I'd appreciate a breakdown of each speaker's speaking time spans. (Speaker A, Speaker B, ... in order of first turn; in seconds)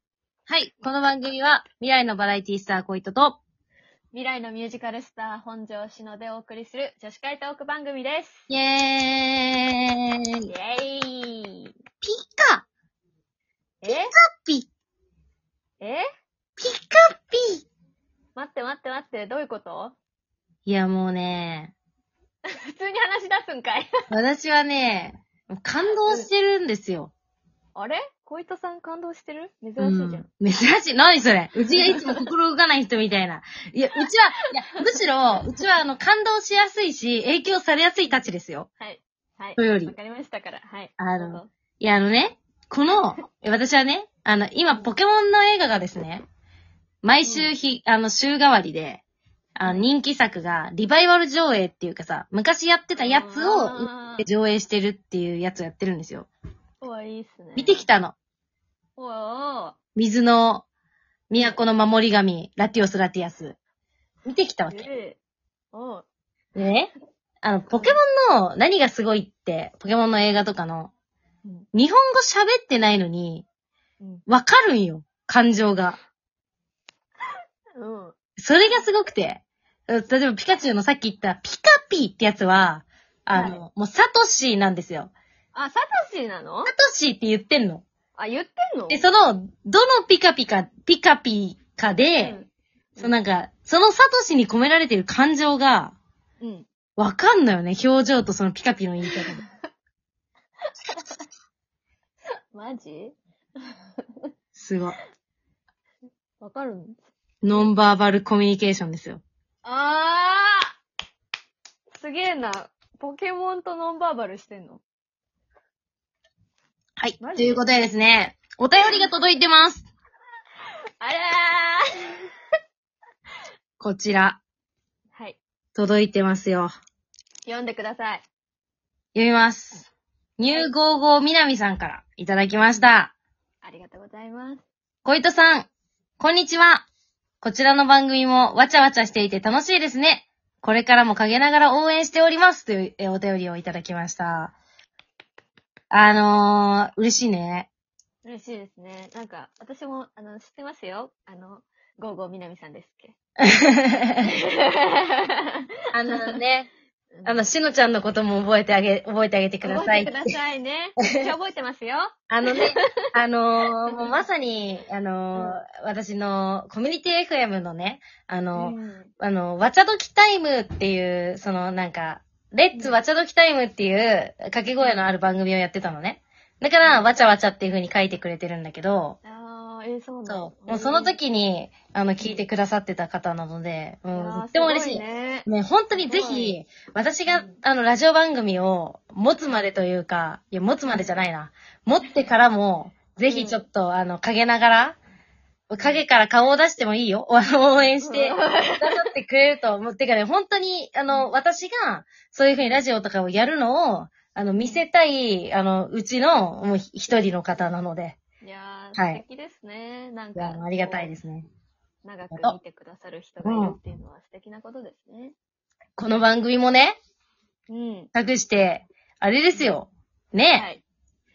Speaker A: 0.5-3.4, 8.5-9.7, 12.0-12.7, 13.8-14.7, 16.6-17.6, 20.6-21.7, 24.1-27.1, 29.8-38.7, 39.6-39.9, 41.0-46.2, 47.0-49.0, 49.5-56.3, 57.5-58.1, 60.0-60.6, 61.3-63.5, 64.2-64.9, 66.5-66.9, 67.4-70.9, 71.7-73.4, 74.3-76.0, 78.4-85.1, 86.7-87.8, 88.9-92.4, 93.0-96.0, 97.0-99.4, 104.5-105.0, 107.4-109.2, 117.0-119.9, 123.8-124.4, 125.8-126.7, 129.1-133.1, 135.0-136.8, 137.4-144.5, 145.9-147.7, 153.4-154.3, 155.9-156.7, 157.2-160.2, 161.0-161.2, 162.3-179.2, 180.2-195.0, 195.7-208.2, 208.9-209.2, 210.3-211.5, 213.4-213.8, 216.0-217.0, 218.1-220.7
Speaker B: 4.1-8.4, 10.5-11.7, 13.8-14.1, 15.8-16.0, 18.3-19.9, 22.6-23.9, 27.7-30.3, 31.7-32.2, 38.8-41.5, 47.2-47.5, 49.6-49.9, 53.0-54.2, 56.8-57.8, 59.0-59.8, 64.7-65.2, 65.7-66.0, 67.7-68.0, 77.8-78.8, 83.3-83.6, 85.5-86.7, 88.1-89.1, 92.2-93.2, 96.4-96.7, 99.1-99.5, 100.9-101.2, 102.5-103.2, 103.7-104.3, 106.4-107.0, 109.6-110.7, 111.9-114.8, 117.2-117.6, 118.8-119.1, 121.0-121.8, 125.1-125.4, 127.5-128.2, 130.5-130.7, 133.6-134.6, 148.2-153.2, 154.2-155.3, 157.1-157.4, 159.6-162.8, 168.5-169.1, 174.8-175.1, 176.8-177.1, 179.2-181.2, 182.2-182.4, 184.1-186.6, 187.3-187.5, 193.2-193.6, 198.0-199.0, 204.6-204.8, 208.4-211.1, 212.0-215.3, 217.7-218.1, 220.5-220.8